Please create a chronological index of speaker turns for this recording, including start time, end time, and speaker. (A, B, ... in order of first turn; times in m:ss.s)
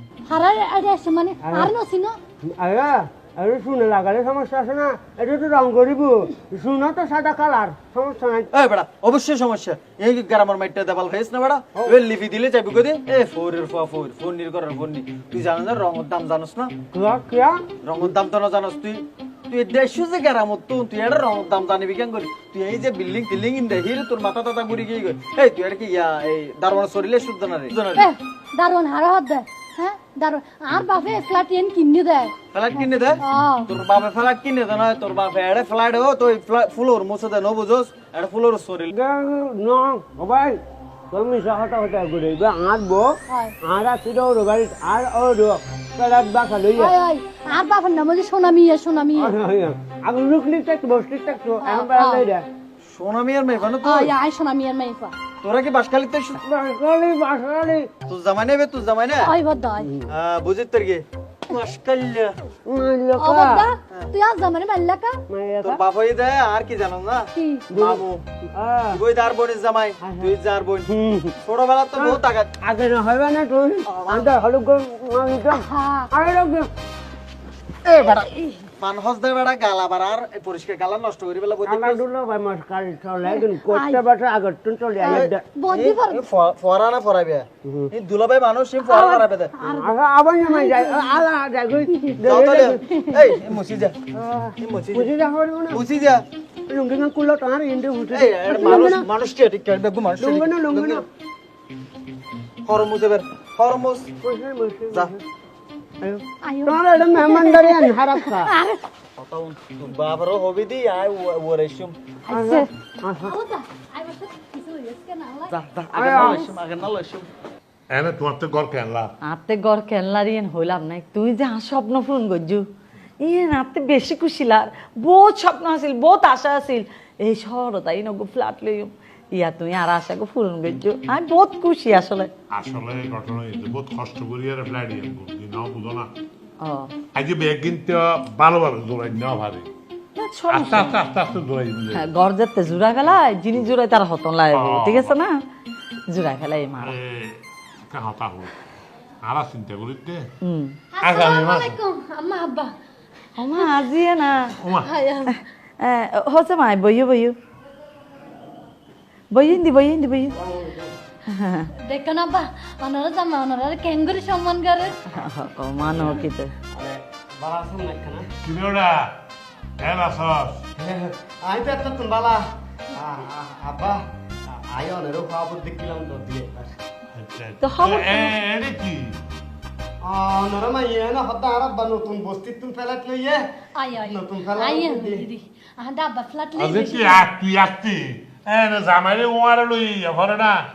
0:00.3-0:02.2 A
0:01.4-0:01.7 B
0:02.4-0:08.5 B
0:08.5-0:16.7 C
0:16.9-0:17.7 B
0:17.8-0:28.1 C
0:27.9-0:33.7 A
0:32.5-0:38.9 C
0:38.9-0:46.9 B
0:43.3-0:43.5 A
0:46.7-0:49.3 A
0:49.1-0:52.5 B
0:51.6-0:52.2 A
0:52.8-0:54.1 C
0:53.7-0:55.2 A
0:55.4-0:56.4 C
0:56.4-0:57.9 B
0:58.1-0:59.4 C
0:59.2-0:59.9 A
0:59.8-1:00.1 B
1:00.1-1:02.4 C
1:02.6-1:03.7 B
1:03.2-1:05.2 A
1:05.3-1:05.8 B
1:05.6-1:08.2 C
1:07.3-1:07.7 A
1:07.7-1:09.0 B
1:08.9-1:10.9 C
1:10.0-1:10.3 B
1:10.9-1:11.3 B
1:11.4-1:12.5 C
1:11.9-1:16.7 B
1:13.8-1:14.3 C
1:15.5-1:16.1 A
1:17.8-1:18.3 B
1:18.0-1:18.7 A
1:18.8-1:22.0 C
1:21.6-1:25.5 B
1:23.2-1:24.0 A
1:25.0-1:26.3 A
1:25.1-1:29.5 C
1:27.6-1:27.9 B
1:28.8-1:31.2 A
1:29.6-1:32.8 B
1:32.2-1:34.0 C
1:32.9-1:33.4 A
1:34.1-1:35.8 B
1:34.6-1:35.1 C
1:35.7-1:36.2 C
1:36.7-1:39.1 B
1:38.1-1:41.0 C
1:40.2-1:41.0 B
1:42.6-1:44.1 C
1:44.2-1:45.2 B
1:46.0-1:48.5 B
1:46.4-1:48.8 A
1:49.2-1:52.1 C
1:52.3-1:53.4 B
1:52.3-1:52.7 A
1:53.2-1:55.5 A
1:55.5-1:56.5 B
1:55.6-1:57.3 C
1:56.2-1:56.4 A
1:57.9-1:59.1 D
1:59.2-2:02.6 E
2:03.2-2:12.3 E
2:12.5-2:16.1 D
2:16.6-2:16.9 E
2:17.1-2:19.7 D
2:20.2-2:21.0 E
2:20.5-2:22.1 D
2:21.9-2:25.4 E
2:24.5-2:25.2 D
2:26.1-2:26.9 E
2:26.8-2:28.5 D
2:29.2-2:30.3 D
2:30.4-2:30.8 E
2:30.9-2:32.7 A
2:31.0-2:31.7 D
2:33.4-2:34.6 E
2:34.6-2:34.9 D
2:34.8-2:35.4 A
2:35.3-2:37.4 E
2:39.3-2:40.4 E
2:40.3-2:40.9 B
2:41.3-2:41.7 E
2:41.8-2:45.0 A
2:45.1-2:46.5 E
2:46.7-2:48.3 B
2:48.4-2:49.2 D
2:49.8-2:50.6 D
2:50.8-2:56.8 B
2:57.1-2:59.2 D
2:57.6-2:58.3 E
3:00.0-3:05.2 B
3:03.8-3:07.3 A
3:06.6-3:10.6 D